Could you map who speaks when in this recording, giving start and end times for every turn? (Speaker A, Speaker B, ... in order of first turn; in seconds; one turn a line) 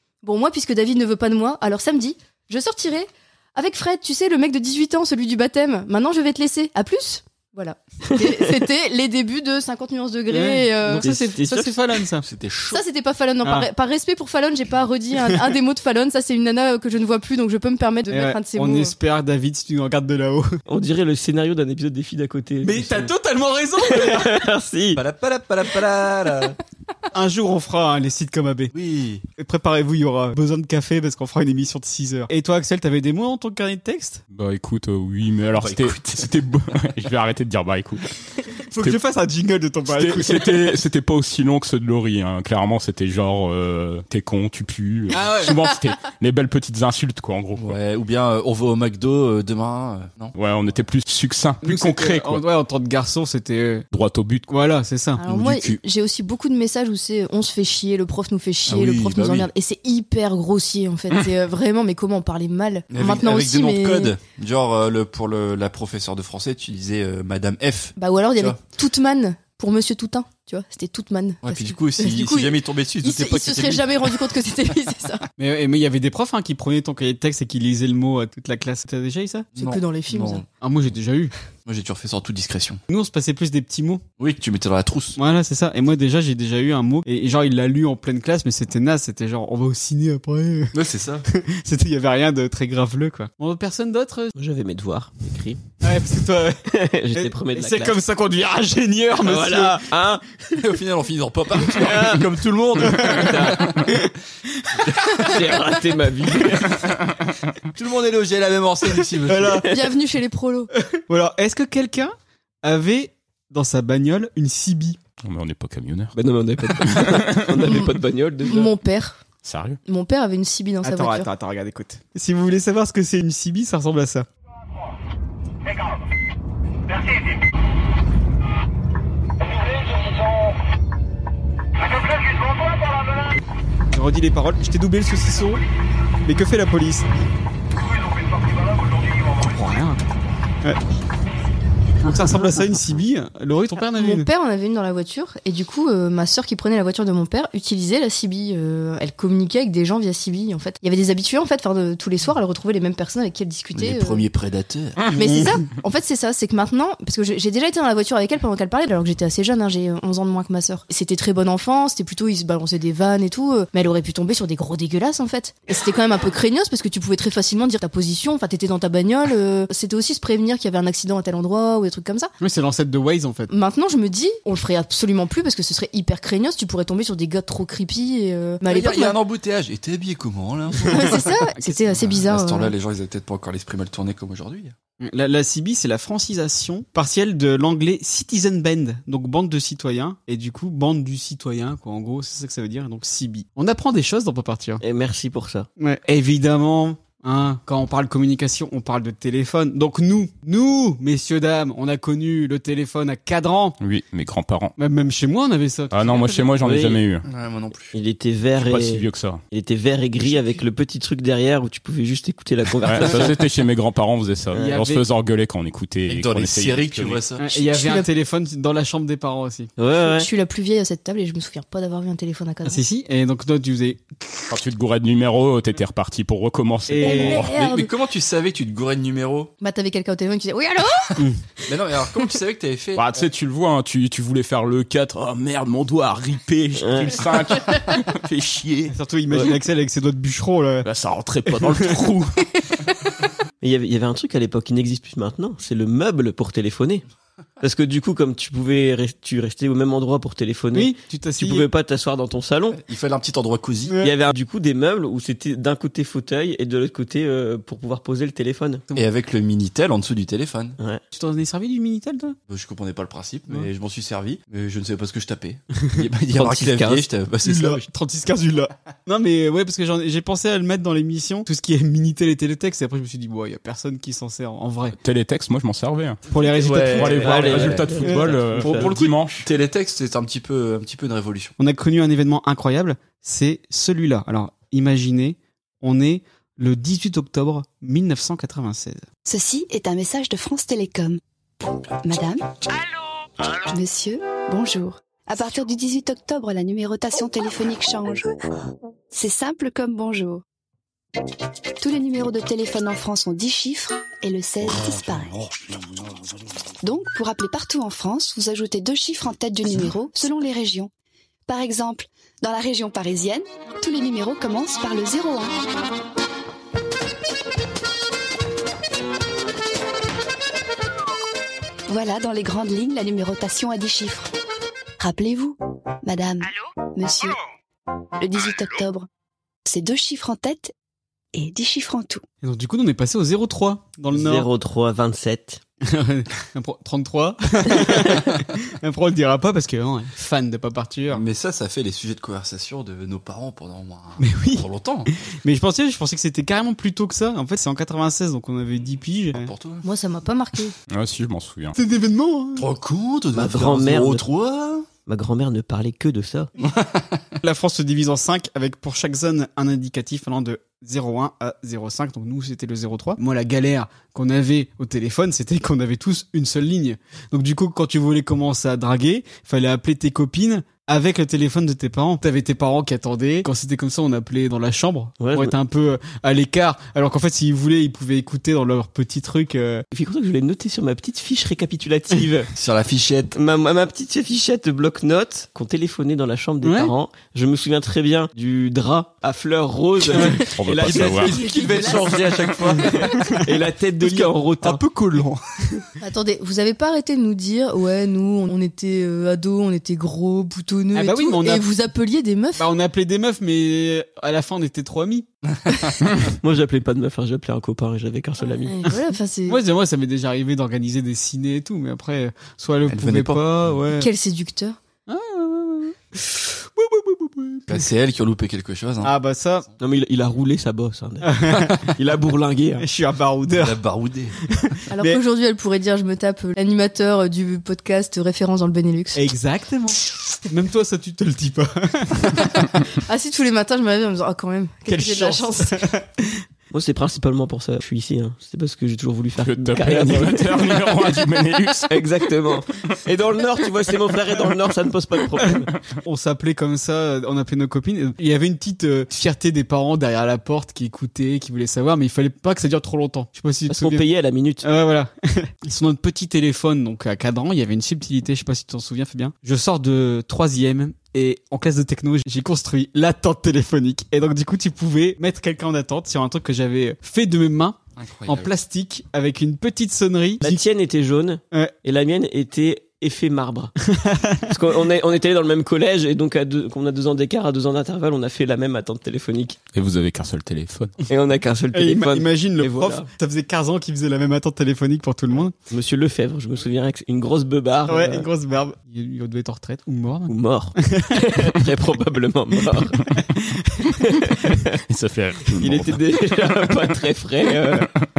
Speaker A: 0.2-11.0
Speaker B: 10.3-12.2
Speaker C: 11.0-11.8
Speaker D: 12.2-12.8
Speaker A: 12.7-18.9
Speaker B: 13.4-13.7
Speaker B: 18.1-20.6
Speaker C: 20.7-23.1
Speaker B: 22.6-24.3
Speaker C: 23.9-25.0
Speaker D: 24.9-26.5
Speaker B: 27.1-28.7
Speaker D: 28.7-29.2
Speaker B: 29.4-34.2
Speaker E: 34.3-38.0
Speaker D: 35.5-36.3
Speaker B: 38.7-40.7
Speaker E: 39.9-47.8
Speaker B: 45.1-45.5
Speaker D: 47.6-50.3
Speaker E: 50.3-52.4
Speaker B: 51.6-53.8
Speaker E: 53.9-54.5
Speaker B: 54.5-55.2
Speaker A: 55.2-64.1
Speaker D: 55.2-55.8
Speaker D: 58.6-59.5
Speaker D: 62.9-68.6
Speaker A: 68.0-75.2
Speaker D: 71.4-74.2
Speaker B: 75.4-79.5
Speaker D: 79.5-80.4
Speaker A: 79.6-80.4
Speaker B: 80.6-81.3
Speaker D: 81.7-82.8
Speaker B: 82.9-84.0
Speaker D: 84.2-85.2
Speaker B: 85.2-90.7
Speaker D: 90.7-91.2
Speaker B: 91.3-94.3
Speaker C: 94.3-95.6
Speaker B: 95.8-96.6
Speaker C: 96.7-98.0
Speaker B: 97.1-99.8
Speaker C: 99.2-100.2
Speaker D: 100.5-103.9
Speaker C: 101.8-102.2
Speaker B: 102.8-103.4
Speaker C: 103.0-103.7
Speaker C: 105.0-106.7
Speaker D: 107.7-109.6
Speaker B: 109.2-109.7
Speaker A: 109.7-110.7
Speaker B: 110.9-115.0
Speaker E: 115.2-116.1
Speaker C: 116.1-118.7
Speaker E: 116.8-117.3
Speaker A: 118.4-119.2
Speaker E: 119.4-119.8
Speaker A: 119.8-121.3
Speaker B: 120.8-124.3
Speaker B: 133.9-135.6
Speaker B: 136.2-137.1
Speaker B: 139.3-140.0
Speaker B: 142.0-144.3
Speaker A: 143.9-154.2
Speaker D: 153.7-155.1
Speaker A: 155.1-172.3
Speaker B: 172.4-173.5
Speaker A: 173.5-179.2
Speaker D: 178.7-181.3
Speaker B: 180.8-181.8
Speaker A: 180.9-182.7
Speaker D: 181.9-184.7
Speaker B: 185.0-194.8
Speaker C: 194.8-195.7
Speaker B: 195.8-203.8
Speaker E: 203.8-204.7
Speaker B: 204.8-206.5
Speaker E: 205.9-207.2
Speaker C: 206.6-207.0
Speaker D: 207.2-207.9
Speaker C: 207.9-213.3
Speaker E: 208.6-209.4
Speaker E: 212.8-217.2
Speaker B: 214.5-215.0
Speaker D: 216.1-217.4
Speaker B: 217.4-219.7
Speaker A: 217.6-218.1
Speaker C: 219.8-220.3
Speaker A: 220.0-222.8
Speaker B: 222.6-224.4
Speaker E: 224.5-227.3
Speaker B: 226.9-227.4
Speaker A: 227.0-227.9
Speaker D: 227.2-229.5
Speaker A: 229.6-231.2
Speaker D: 231.7-233.2
Speaker E: 232.9-238.9
Speaker C: 236.8-237.2
Speaker B: 238.9-240.9
Speaker E: 240.8-242.3
Speaker B: 241.4-241.9
Speaker C: 243.6-247.0
Speaker C: 247.6-252.8
Speaker B: 250.7-251.7
Speaker D: 252.7-253.9
Speaker B: 253.9-254.1
Speaker C: 254.0-258.8
Speaker D: 258.9-260.8
Speaker B: 261.1-262.4
Speaker D: 262.5-267.8
Speaker C: 266.3-267.1
Speaker B: 267.4-274.9
Speaker E: 275.0-276.2
Speaker B: 276.3-279.1
Speaker D: 276.6-277.2
Speaker E: 276.7-279.4
Speaker C: 277.1-278.9
Speaker D: 279.4-281.5
Speaker B: 281.6-289.1
Speaker F: 289.2-291.2
Speaker F: 292.0-292.7
Speaker F: 293.5-298.3
Speaker F: 299.1-300.4
Speaker F: 301.8-305.8
Speaker F: 306.8-310.9
Speaker F: 311.5-315.6
Speaker F: 321.9-324.3
Speaker F: 325.0-327.4
Speaker F: 328.2-329.1
Speaker F: 329.6-330.7
Speaker F: 331.3-332.2
Speaker B: 332.4-334.5
Speaker C: 334.1-335.6
Speaker B: 335.8-341.2
Speaker D: 341.1-345.1
Speaker B: 344.2-344.6
Speaker B: 345.4-349.5
Speaker D: 349.3-349.8
Speaker A: 349.8-350.7
Speaker E: 350.9-351.8
Speaker B: 351.8-352.7
Speaker D: 352.6-354.8
Speaker C: 353.3-354.2
Speaker C: 355.1-356.5
Speaker D: 356.6-357.2
Speaker B: 357.4-379.8
Speaker C: 375.2-375.5
Speaker C: 379.9-382.5
Speaker D: 382.5-383.3
Speaker C: 383.3-394.8
Speaker B: 386.6-386.9
Speaker E: 390.6-391.4
Speaker D: 390.8-392.9
Speaker A: 391.3-392.1
Speaker B: 394.0-395.4
Speaker A: 396.0-402.6
Speaker B: 400.9-401.6
Speaker B: 402.6-405.2
Speaker D: 405.5-405.9
Speaker C: 406.4-408.8
Speaker A: 408.5-409.6
Speaker B: 409.5-414.1
Speaker D: 412.9-413.7
Speaker A: 414.0-414.8
Speaker B: 415.1-417.8
Speaker D: 417.7-419.1
Speaker B: 419.0-419.6
Speaker C: 419.8-421.4
Speaker B: 421.2-421.8
Speaker C: 421.9-422.8
Speaker B: 422.8-423.8
Speaker D: 423.5-424.3
Speaker B: 424.4-425.2
Speaker A: 424.9-429.2
Speaker B: 429.1-432.6
Speaker A: 433.1-435.8
Speaker B: 434.9-436.3
Speaker C: 436.7-440.5
Speaker E: 439.4-441.9
Speaker C: 441.9-445.7
Speaker B: 446.0-454.0
Speaker C: 453.7-454.6
Speaker B: 454.6-470.6
Speaker D: 468.0-468.5
Speaker C: 470.4-473.7
Speaker B: 473.9-474.5
Speaker C: 474.5-479.6
Speaker E: 479.7-480.9
Speaker C: 481.1-483.1
Speaker B: 481.7-485.5
Speaker C: 485.7-488.2
Speaker B: 487.9-490.3
Speaker C: 490.3-493.0
Speaker B: 490.9-491.2
Speaker B: 493.4-493.7
Speaker C: 494.1-494.7
Speaker E: 494.9-496.0
Speaker C: 495.6-497.9